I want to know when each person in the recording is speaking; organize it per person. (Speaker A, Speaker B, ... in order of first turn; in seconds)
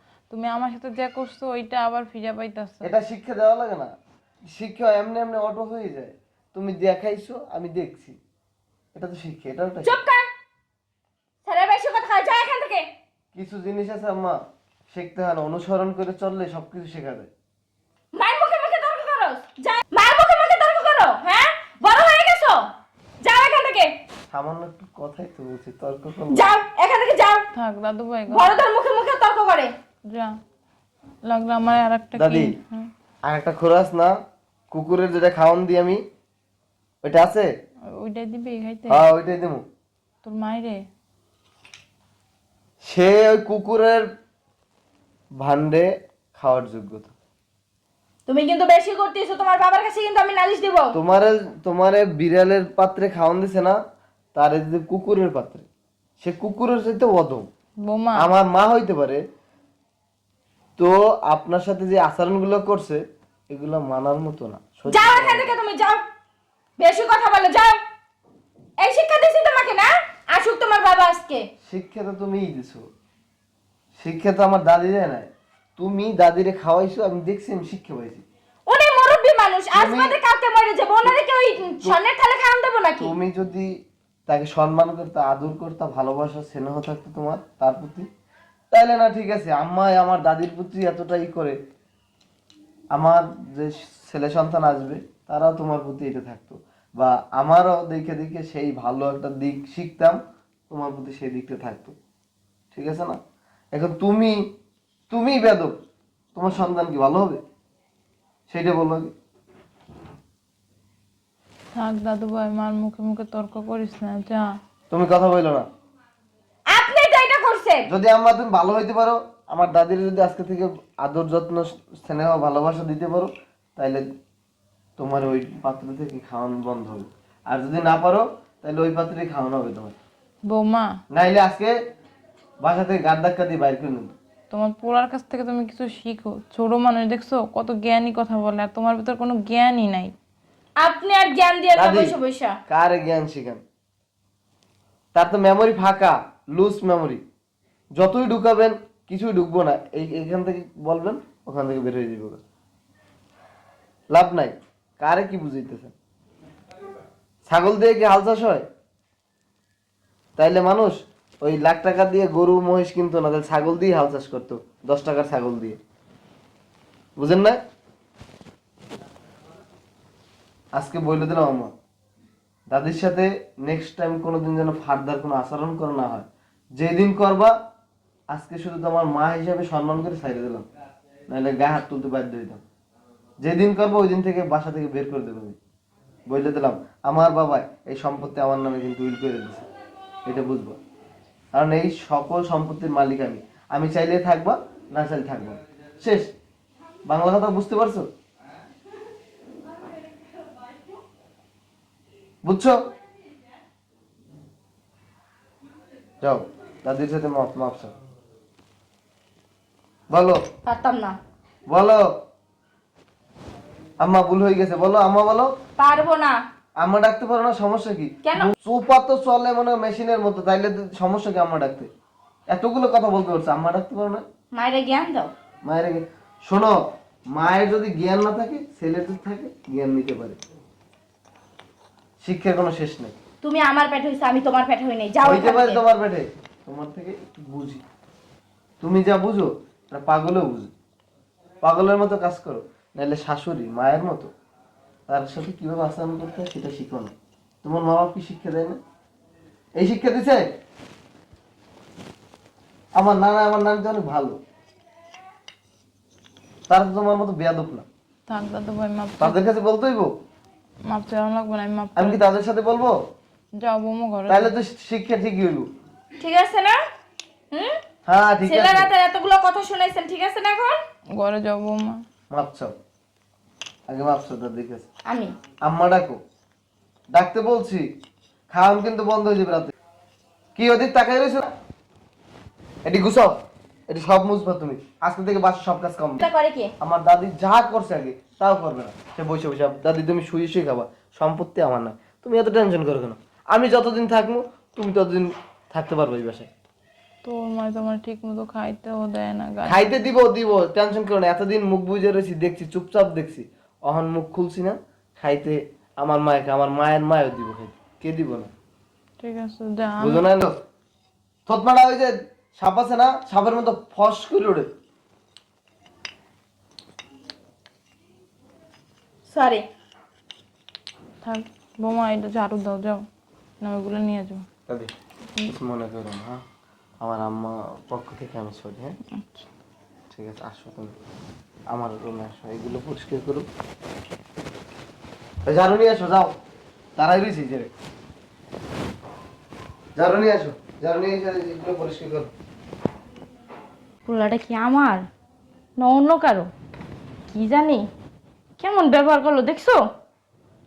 Speaker A: 0.3-2.9, 27.5-28.6, 30.1-30.4, 31.2-32.9, 37.9-39.0, 40.2-40.9, 57.8-58.3, 111.7-114.5, 130.5-130.9, 134.5-140.1, 258.3-259.4, 260.9-262.2, 263.6-264.5, 271.2-272.0, 297.2-299.9, 309.2-310.2, 321.2-323.1, 323.6-324.4, 329.1-329.4
Speaker B: 2.8-3.9, 4.5-8.2, 8.9-10.0, 13.3-14.4, 14.9-17.3, 24.3-26.5, 32.1-32.5, 33.2-34.1, 34.7-36.0, 37.0-37.5, 38.9-39.6, 42.8-44.0, 45.4-47.1, 50.9-53.8, 54.3-55.6, 56.2-57.5, 58.1-59.2, 60.8-65.5, 71.6-72.8, 74.0-78.2, 79.7-80.2, 83.0-83.7, 84.3-88.1, 88.7-91.5, 92.9-100.2, 100.7-101.9, 102.7-103.2, 103.7-104.4, 105.1-105.7, 106.3-107.4, 108.5-109.1, 114.9-115.6, 117.9-124.0, 125.0-129.9, 131.1-131.8, 132.6-134.1, 141.7-142.1, 142.7-143.6, 145.1-147.2, 147.9-152.4, 154.1-155.9, 157.5-158.6, 160.4-165.8, 167.2-167.6, 170.7-171.7, 172.7-176.2, 176.8-177.5, 178.3-180.7, 181.3-182.6, 183.4-185.6, 186.3-189.7, 190.3-190.8, 191.5-196.3, 197.1-198.1, 202.4-202.8, 206.2-207.9, 210.1-210.4, 211.7-212.1, 214.0-215.5, 216.8-221.9, 222.5-224.2, 225.6-226.8, 227.3-230.4, 232.2-233.1, 235.2-237.8, 238.8-240.7, 241.6-244.3, 245.1-247.1, 247.6-248.8, 249.8-250.4, 252.9-254.4, 256.7-257.8, 259.2-260.1, 262.0-262.9, 264.3-265.7, 268.1-268.9, 272.3-272.7, 273.9-274.9, 275.6-276.2, 277.1-277.8, 278.5-279.7, 280.6-281.5, 282.9-283.3, 283.9-286.2, 286.8-296.5, 299.7-308.5, 310.0-310.5, 311.5-314.7, 324.7-324.9, 325.4-326.4, 327.0-329.0, 330.1-330.9, 331.7-333.5, 335.4-336.3, 337.0-337.7, 339.9-342.3
Speaker C: 9.8-10.3, 11.4-12.9, 18.1-22.6, 23.2-23.9, 26.3-27.5, 28.3-29.7, 48.3-51.0, 64.9-66.0, 66.8-67.8, 68.8-71.5, 78.7-83.1, 116.7-117.9, 140.8-142.6, 210.7-211.2, 215.8-216.4, 218.2-218.5, 224.5-225.3, 233.4-235.8, 266.2-266.8, 267.5-267.8, 268.4-270.8, 275.1-275.3, 286.2-286.7, 319.3-319.6, 344.1-345.1, 345.8-346.5, 347.3-347.9, 348.6-349.8